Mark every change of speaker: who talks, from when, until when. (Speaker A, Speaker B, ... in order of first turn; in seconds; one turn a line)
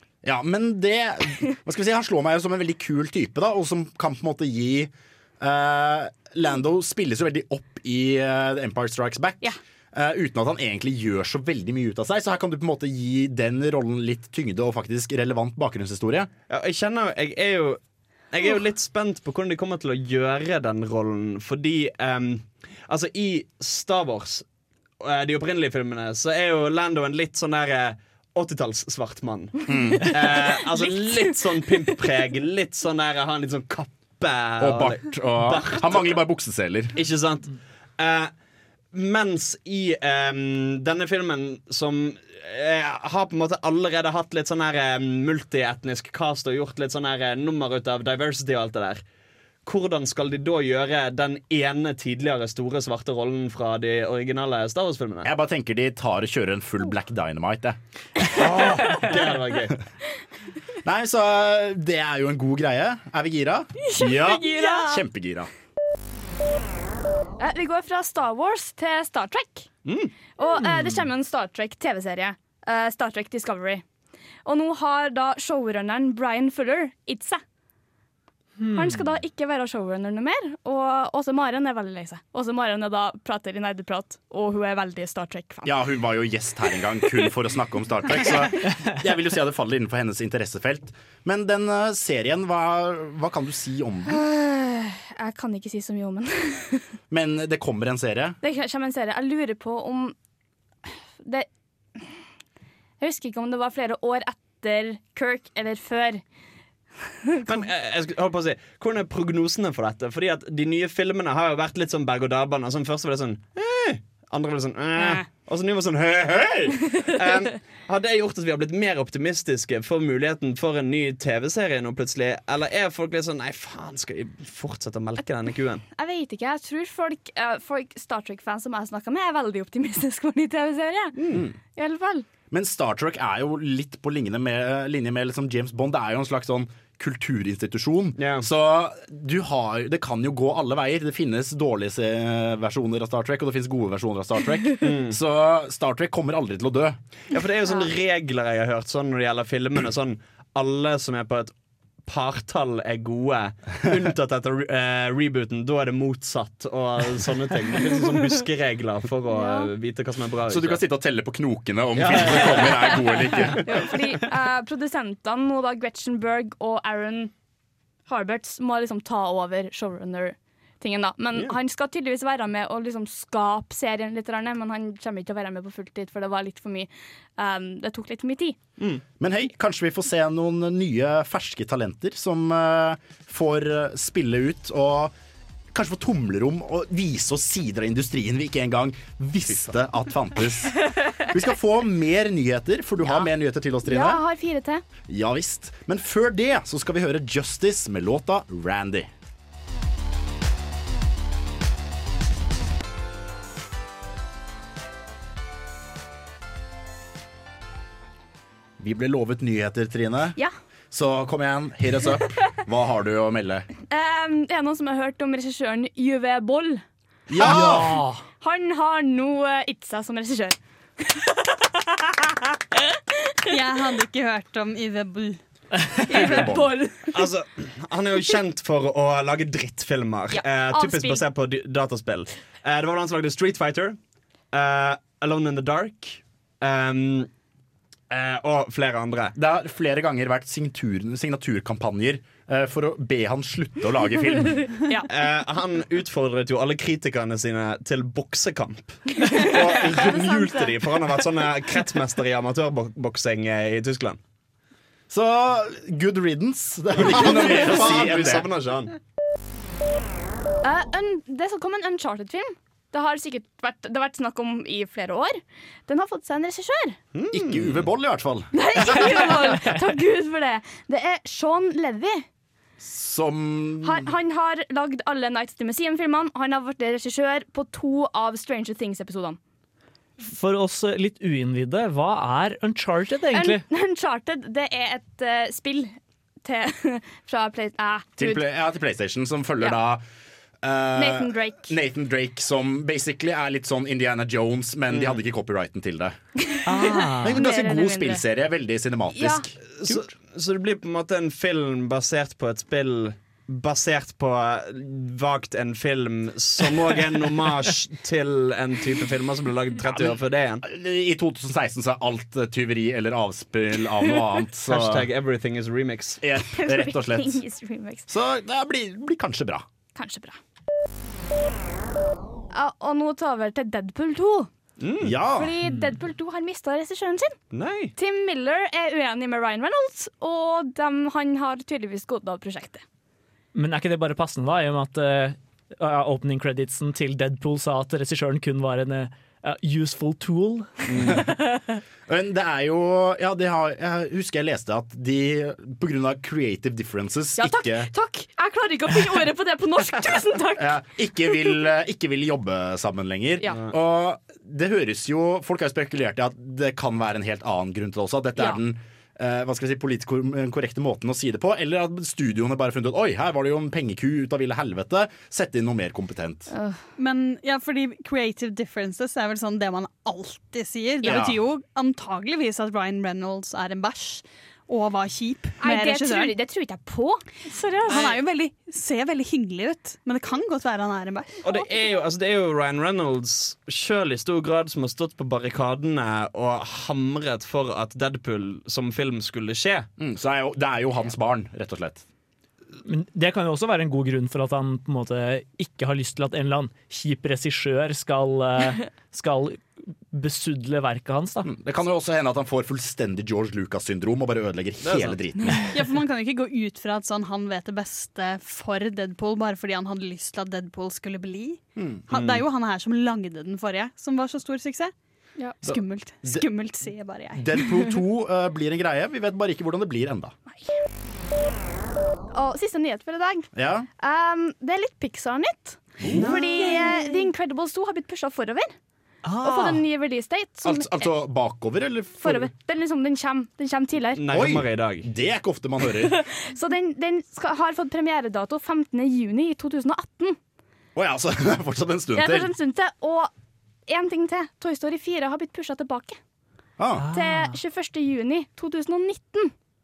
Speaker A: 0.2-16.3
Speaker B: 16.5-17.8
Speaker B: 18.3-24.4
Speaker B: 25.0-36.2
Speaker A: 29.7-30.2
Speaker C: 30.7-31.3
Speaker A: 34.6-37.0
Speaker B: 36.9-38.3
Speaker B: 38.9-49.0
Speaker B: 49.6-55.3
Speaker A: 55.2-57.8
Speaker A: 58.3-59.0
Speaker B: 58.4-59.8
Speaker A: 60.8-65.5
Speaker C: 63.9-65.0
Speaker D: 64.1-64.8
Speaker C: 67.4-69.7
Speaker B: 69.8-70.1
Speaker C: 70.4-73.8
Speaker E: 70.5-71.0
Speaker C: 74.4-77.4
Speaker E: 78.6-79.0
Speaker C: 78.7-85.8
Speaker A: 85.6-94.2
Speaker C: 94.1-96.9
Speaker A: 97.1-98.4
Speaker C: 98.4-100.1
Speaker C: 100.8-102.2
Speaker C: 103.0-106.2
Speaker C: 107.2-107.6
Speaker B: 107.5-125.8
Speaker C: 125.9-131.2
Speaker B: 131.2-131.4
Speaker A: 131.3-131.6
Speaker C: 131.8-132.2
Speaker A: 132.5-147.0
Speaker B: 138.2-138.5
Speaker B: 144.8-145.2
Speaker B: 147.3-151.5
Speaker B: 152.1-160.8
Speaker C: 159.3-159.7
Speaker A: 160.5-163.6
Speaker B: 161.9-163.0
Speaker C: 163.6-167.3
Speaker C: 168.1-178.6
Speaker A: 179.2-185.1
Speaker A: 185.7-194.2
Speaker C: 193.8-194.8
Speaker A: 195.1-199.1
Speaker A: 208.8-210.4
Speaker A: 210.9-213.7
Speaker C: 213.9-216.8
Speaker A: 217.3-217.9
Speaker E: 217.4-218.2
Speaker C: 217.4-223.5
Speaker D: 223.4-225.4
Speaker C: 226.1-227.3
Speaker D: 226.1-226.6
Speaker A: 226.1-226.7
Speaker B: 227.1-234.0
Speaker C: 230.3-231.2
Speaker B: 234.5-237.3
Speaker B: 238.1-239.3
Speaker A: 239.3-244.7
Speaker B: 245.1-254.2
Speaker C: 249.3-250.1
Speaker A: 249.7-250.6
Speaker A: 255.1-258.4
Speaker B: 256.9-258.9
Speaker C: 260.6-267.0
Speaker B: 267.1-267.8
Speaker A: 267.3-269.4
Speaker C: 268.5-272.3
Speaker A: 272.8-274.1
Speaker C: 273.8-279.4
Speaker E: 280.2-283.6
Speaker C: 283.3-288.4
Speaker A: 288.2-290.0
Speaker A: 290.6-296.2
Speaker C: 290.9-291.7
Speaker B: 294.9-295.2
Speaker C: 296.5-298.2
Speaker E: 296.6-297.4
Speaker A: 297.2-300.0
Speaker C: 299.1-299.5
Speaker B: 299.7-310.6
Speaker A: 309.8-315.1
Speaker B: 314.7-316.2
Speaker A: 316.2-317.4
Speaker C: 316.5-318.1
Speaker A: 318.1-319.7
Speaker C: 319.9-320.4
Speaker C: 322.5-324.5
Speaker B: 324.8-325.2
Speaker A: 325.0-325.5
Speaker C: 325.3-327.4
Speaker E: 325.6-325.9
Speaker B: 327.5-327.9
Speaker C: 327.9-332.8
Speaker E: 333.5-341.2
Speaker B: 340.9-341.2
Speaker A: 342.1-347.9
Speaker C: 347.4-351.4
Speaker A: 350.5-366.5
Speaker C: 366.5-366.8
Speaker D: 367.0-376.3
Speaker A: 371.0-371.4
Speaker C: 375.6-378.2
Speaker D: 377.9-381.3
Speaker B: 381.4-389.9
Speaker A: 390.0-392.1
Speaker E: 392.8-401.5
Speaker A: 401.4-405.6
Speaker B: 404.8-405.2
Speaker D: 405.7-414.9
Speaker A: 411.8-412.0
Speaker B: 412.1-412.4
Speaker C: 415.4-415.7
Speaker A: 415.6-416.4
Speaker D: 415.6-417.6
Speaker A: 417.4-420.3
Speaker C: 420.5-420.7
Speaker C: 422.3-428.7
Speaker A: 423.5-423.9
Speaker A: 426.0-426.3
Speaker E: 429.2-429.8
Speaker C: 429.4-431.1
Speaker A: 430.6-432.5
Speaker C: 432.2-434.2
Speaker B: 434.1-435.1
Speaker A: 434.3-436.2
Speaker C: 435.9-440.4
Speaker A: 440.9-442.5
Speaker C: 442.1-443.3
Speaker C: 443.9-446.2
Speaker A: 446.8-447.0
Speaker E: 447.0-447.6
Speaker C: 447.1-449.5